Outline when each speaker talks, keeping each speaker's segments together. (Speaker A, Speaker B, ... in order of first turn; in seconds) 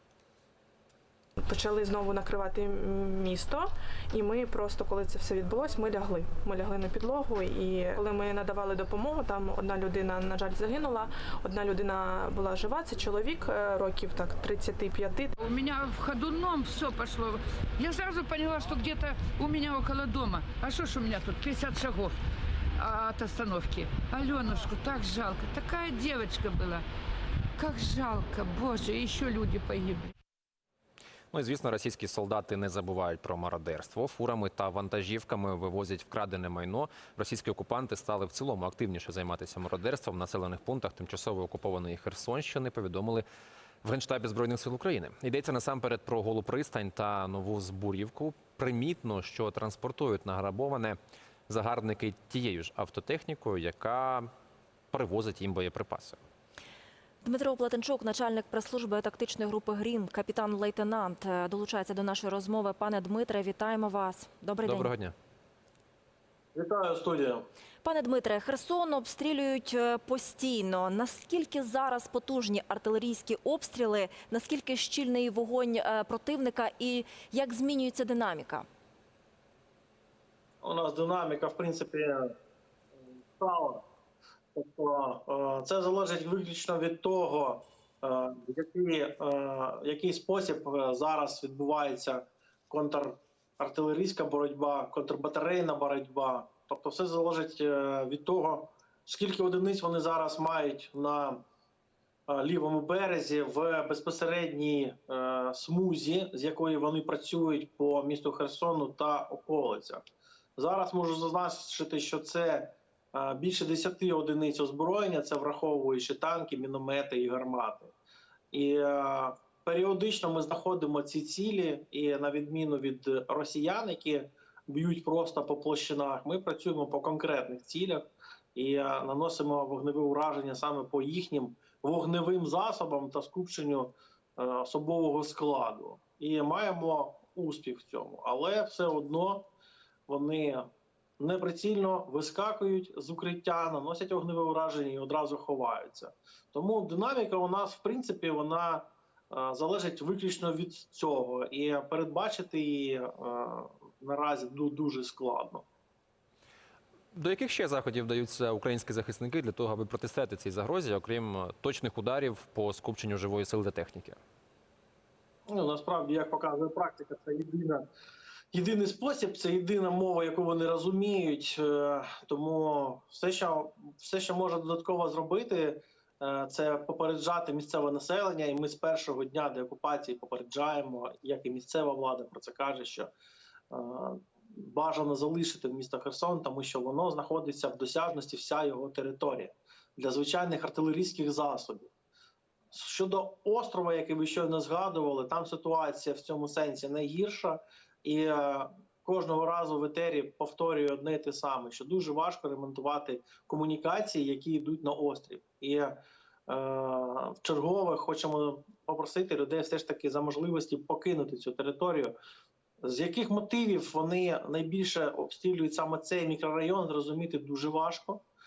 Speaker A: 1.4-15.3
Speaker B: 15.4-22.1, 22.8-26.8, 27.6-30.1
Speaker C: 31.3-43.2, 43.8-51.0, 51.5-54.3, 54.9-56.2, 64.6-65.1, 157.1-164.2
Speaker D: 57.2-64.9, 67.8-78.7
Speaker E: 66.5-67.5, 80.6-82.3, 83.4-83.8, 84.5-101.4, 102.3-110.0, 110.5-117.9, 118.5-139.5, 140.1-140.7, 141.2-155.6, 165.5-167.8, 168.5-183.1, 183.7-191.9, 192.7-212.2, 212.8-218.2